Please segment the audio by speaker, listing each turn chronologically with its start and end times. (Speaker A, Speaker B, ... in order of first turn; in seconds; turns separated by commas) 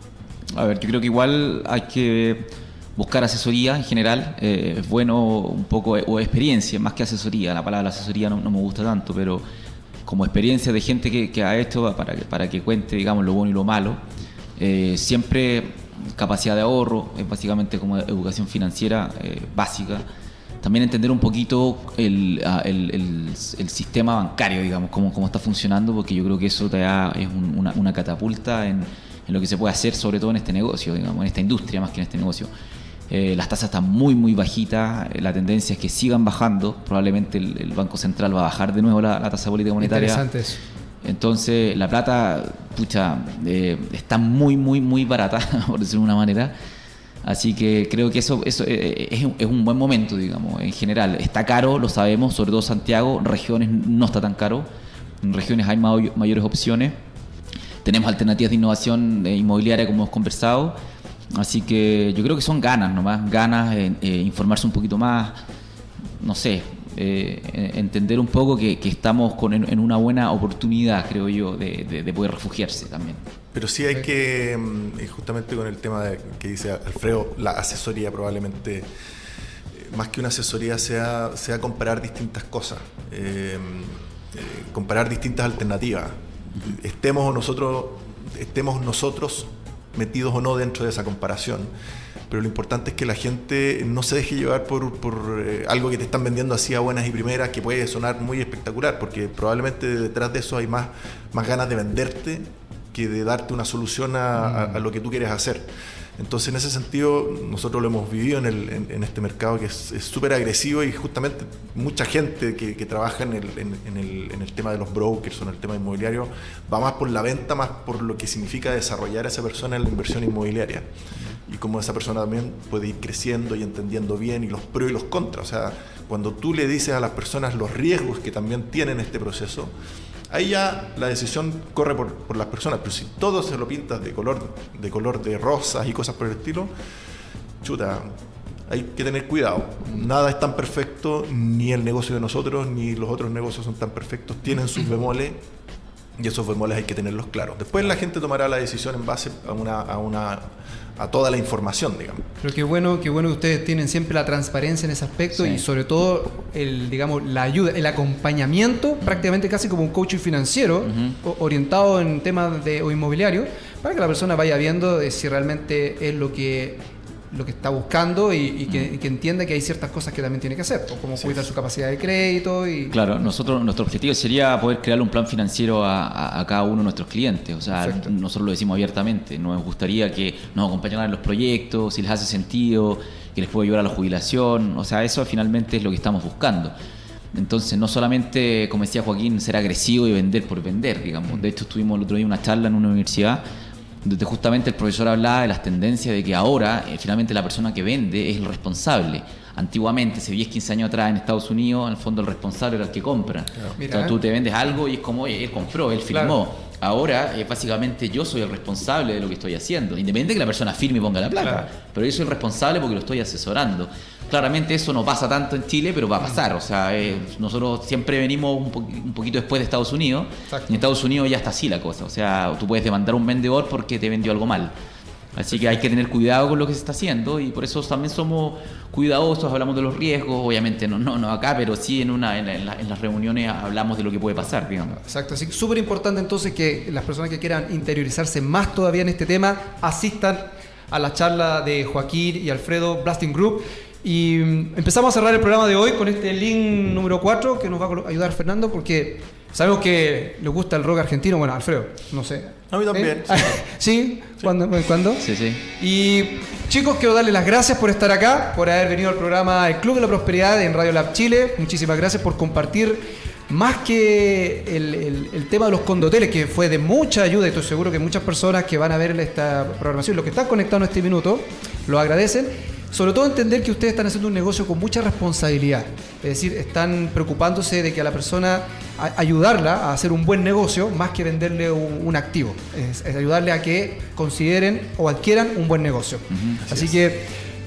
Speaker A: 0.5-9.4, Speaker A: 10.1-14.0, Speaker A: 14.6-20.1, Speaker A: 20.6-32.5, Speaker A: 33.1-40.2, Speaker B: 39.8-40.6, Speaker A: 41.0-46.5, Speaker A: 47.2-54.7, Speaker A: 55.2-57.0, Speaker A: 57.8-60.7, Speaker A: 61.3-65.4, Speaker A: 66.2-73.2, Speaker C: 73.5-78.9, Speaker C: 79.7-91.7, Speaker C: 92.3-120.9, Speaker C: 121.5-129.7, Speaker C: 130.3-136.7, Speaker C: 137.6-138.1, Speaker C: 138.7-145.4, Speaker C: 146.2-152.3, Speaker B: 152.4-173.4, Speaker A: 155.3-155.6, Speaker A: 160.8-161.1, Speaker A: 172.9-186.7, Speaker B: 177.8-178.1, Speaker A: 187.3-193.4, Speaker A: 194.0-224.7, Speaker B: 203.8-204.2, Speaker B: 206.1-206.4, Speaker B: 211.4-211.7, Speaker B: 220.5-220.8, Speaker A: 225.3-234.9, Speaker B: 234.9-287.3, Speaker C: 252.7-253.6, Speaker A: 255.2-255.6, Speaker A: 286.3-286.8